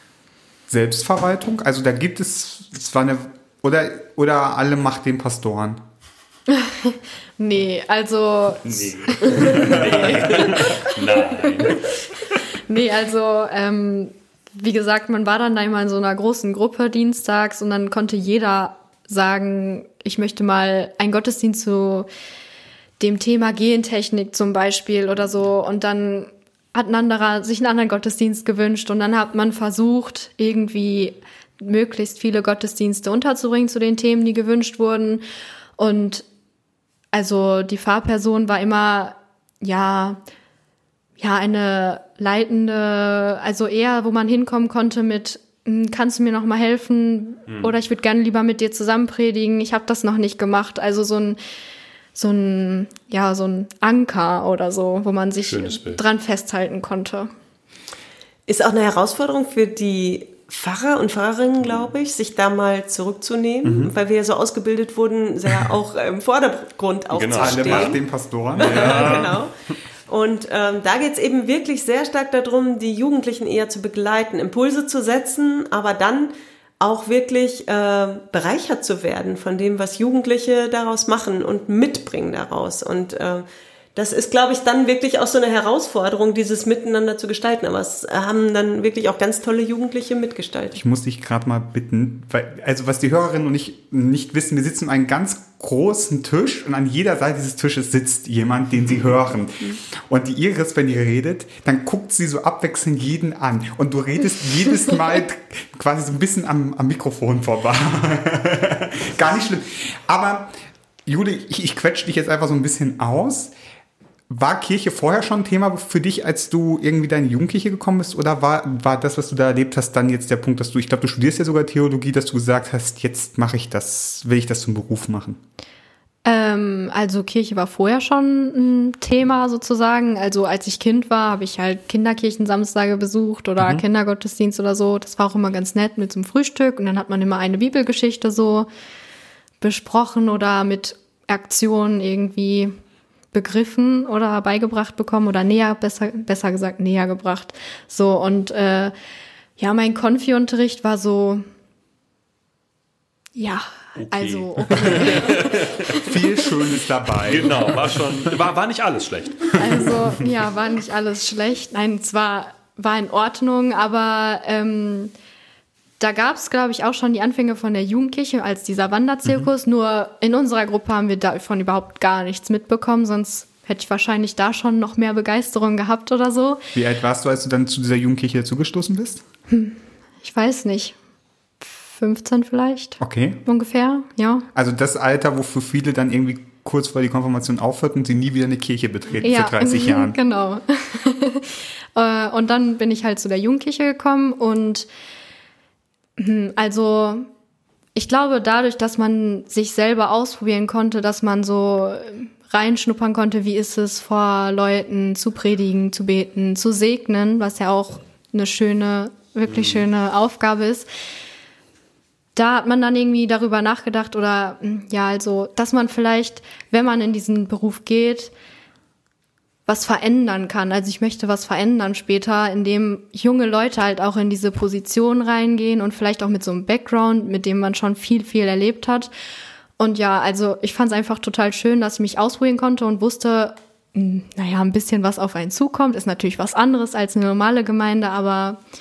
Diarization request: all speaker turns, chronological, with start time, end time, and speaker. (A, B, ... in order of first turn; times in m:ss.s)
0:00.7-0:05.8 A
0:06.5-0:11.9 B
0:08.7-0:11.9 C
0:09.4-0:10.1 A
0:12.7-0:22.1 B
0:23.0-0:35.2 B
0:35.8-0:36.2 B
0:37.1-0:40.2 B
0:41.2-0:51.4 B
0:47.5-0:47.7 C
0:52.1-0:57.3 B
0:55.4-0:56.0 C
0:58.5-1:08.0 D
1:03.6-1:03.9 A
1:07.1-1:08.0 C
1:07.4-1:09.4 A
1:08.6-1:09.5 D
1:08.6-1:09.4 C
1:10.1-1:30.8 D
1:30.8-1:50.5 A
1:51.0-1:53.5 A
1:54.3-2:05.4 A
2:06.2-2:18.7 B
2:19.6-2:22.7 B
2:23.3-2:28.9 B
2:29.6-2:31.4 B
2:33.4-2:36.4 B
2:34.0-2:36.0 C
2:36.0-2:38.1 A
2:37.2-2:40.1 C
2:39.6-2:45.1 B
2:46.0-2:56.6 B
2:56.7-2:59.2 A
2:59.5-3:01.0 B
3:01.6-3:04.4 B
3:03.0-3:03.4 A
3:04.5-3:10.2 A
3:09.2-3:14.9 B
3:16.2-3:17.3 B
3:18.0-3:30.9 B
3:29.5-3:29.8 C
3:32.4-3:38.3 B
3:39.7-3:49.1 B
3:49.8-3:58.6 B